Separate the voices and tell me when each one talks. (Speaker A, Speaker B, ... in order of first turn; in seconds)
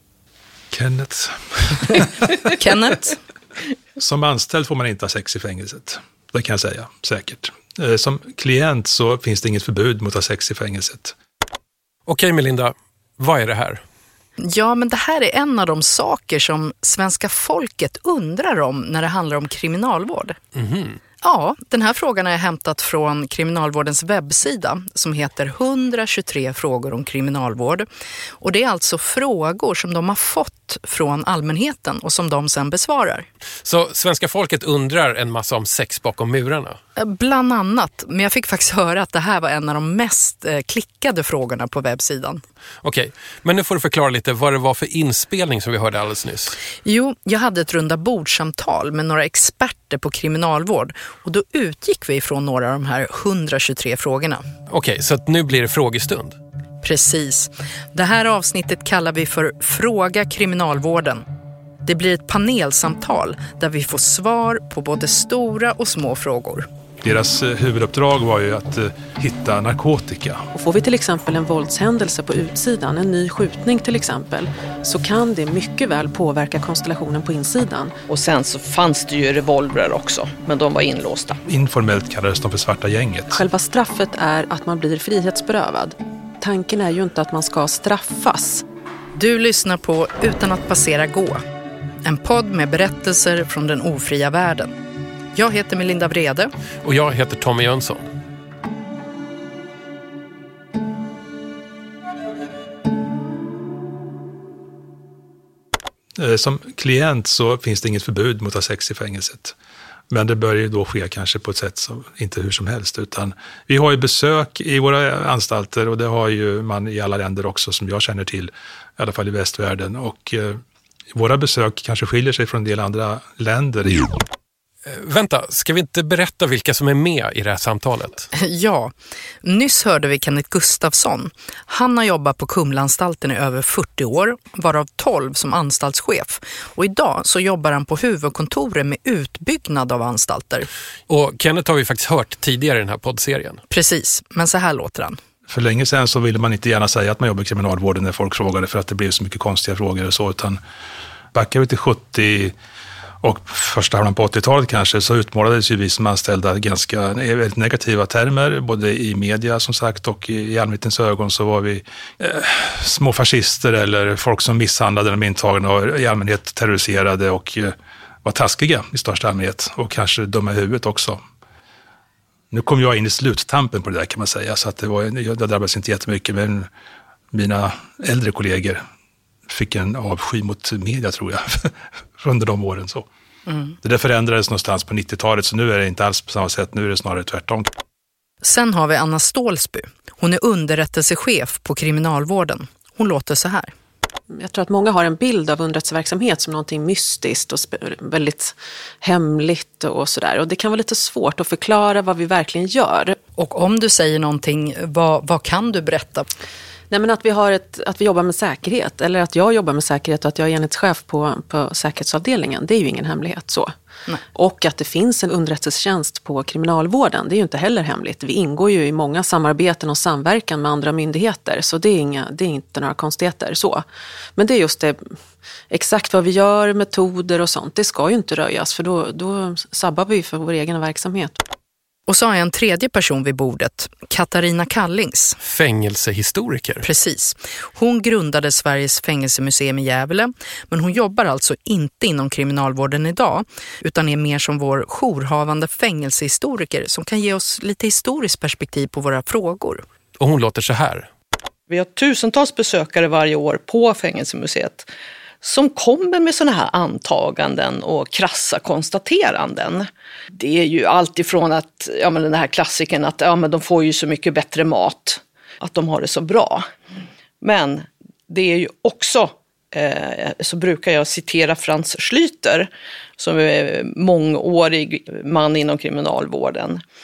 Speaker A: 0.7-2.1, 4.0-11.2, 67.0-70.5, 81.5-83.4, 106.2-109.5, 110.1-120.6, 121.1-124.2, 145.5-150.6, 151.3-152.5, 153.2-171.2, 172.5-176.7, 177.3-178.8, 179.5-183.1, 183.8-187.7
Speaker B: 2.5-3.2, 14.4-20.4, 21.2-27.9, 28.4-33.3, 37.0-42.4, 46.8-54.4, 56.8-61.2, 61.9-66.7, 89.2-91.4, 92.0-94.7, 95.3-96.5, 128.3-140.7, 143.7-145.2, 183.5-183.8, 188.4-193.7, 203.4-206.3, 232.1-235.4, 236.8-249.8
Speaker C: 12.1-13.8, 20.6-21.0, 33.6-36.8, 42.8-46.6, 54.7-56.4, 96.8-98.1, 124.8-128.3, 141.1-143.6, 235.4-236.8, 250.2-251.1
Speaker D: 70.5-78.0, 83.3-88.7, 194.3-203.2, 206.9-213.7, 214.3-223.8, 224.4-225.1, 225.7-231.4
Speaker E: 78.1-81.4, 251.7-254.9, 255.4-266.7, 267.4-276.8